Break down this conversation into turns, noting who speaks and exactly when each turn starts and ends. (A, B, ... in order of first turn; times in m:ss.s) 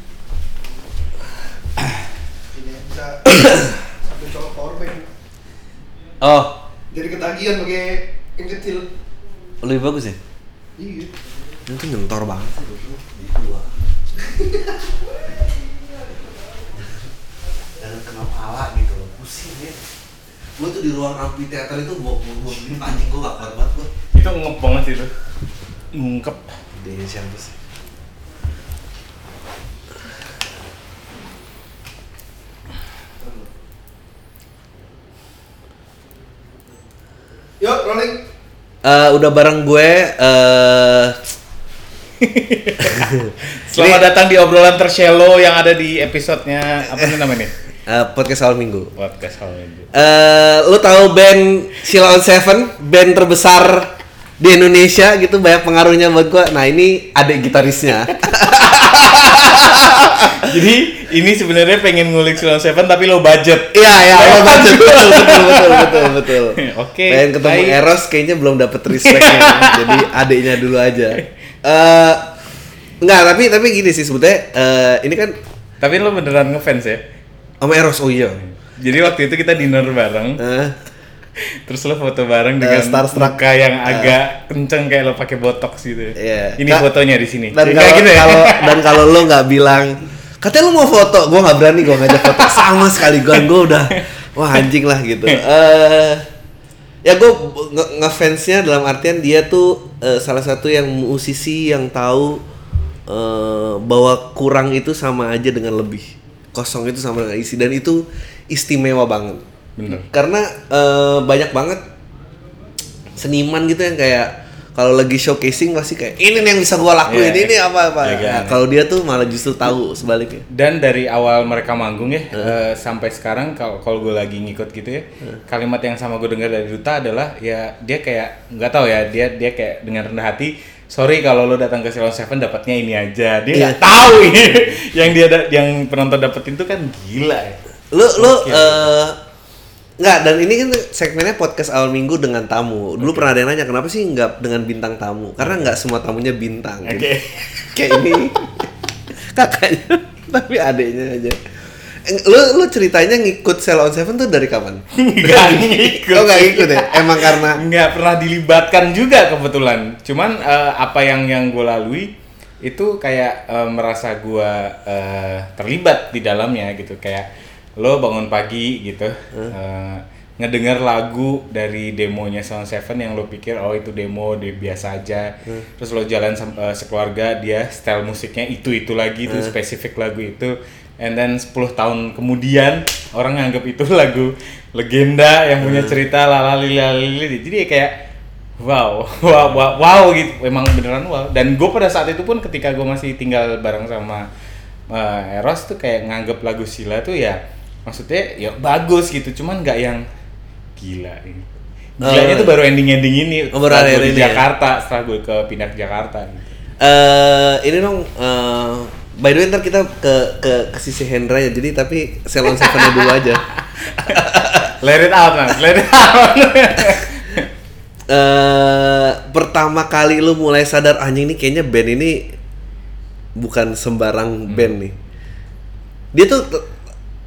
0:02.5-0:05.1 A
0:06.2-0:06.6 B
0:06.9-0:08.9 A
0:09.6-0:10.2 B
0:10.8-0:11.1 A
0:11.7-0:13.7 B
0:14.3-0:14.7 A
0:17.8-0:19.8 B
0:20.6-0:23.9 B
0:24.1-0:25.1 C
0:25.9-0:26.6 C
0:26.7-0:27.6 B
0:33.2-0:33.5 A
0:37.6-0:38.2 A
0:38.8-0:41.2 B
0:42.2-0:47.5 C
0:42.9-0:44.1 B
0:47.9-0:48.9 B
0:49.0-0:49.9 C
0:49.9-1:00.5 B
1:00.1-1:07.8 C
1:03.7-1:12.3 B
1:08.9-1:10.1 C
1:13.0-1:15.3 B
1:15.8-1:17.0 C
1:17.6-1:18.4 B
1:18.7-1:20.4 C
1:20.4-1:20.7 B
1:21.4-1:29.2 C
1:22.6-1:24.1 B
1:26.2-1:26.8 B
1:27.5-1:36.3 B
1:32.0-1:34.0 C
1:37.0-1:42.4 B
1:43.1-1:51.8 B
1:49.8-1:50.0 C
1:53.2-2:00.5 B
1:57.0-1:58.6 C
2:00.5-2:17.6 C
2:13.5-2:13.8 B
2:17.9-2:19.2 B
2:18.2-2:18.9 C
2:20.0-2:27.1 B
2:23.0-2:23.3 C
2:25.4-2:25.7 C
2:26.8-2:28.3 C
2:27.7-2:28.6 B
2:29.3-2:31.4 B
2:32.0-2:37.6 B
2:35.0-3:08.0 C
2:59.3-2:59.5 B
3:05.6-3:06.0 B
3:08.6-3:14.3 C
3:14.9-3:20.0 C
3:20.8-3:21.5 C
3:22.0-3:26.5 C
3:22.0-3:22.6 B
3:23.5-3:24.4 B
3:26.8-3:33.4 B
3:32.4-3:37.5 C
3:34.0-3:34.7 B
3:38.1-3:42.3 B
3:43.4-3:44.9 B
3:44.5-3:44.8 C
3:46.1-3:46.7 B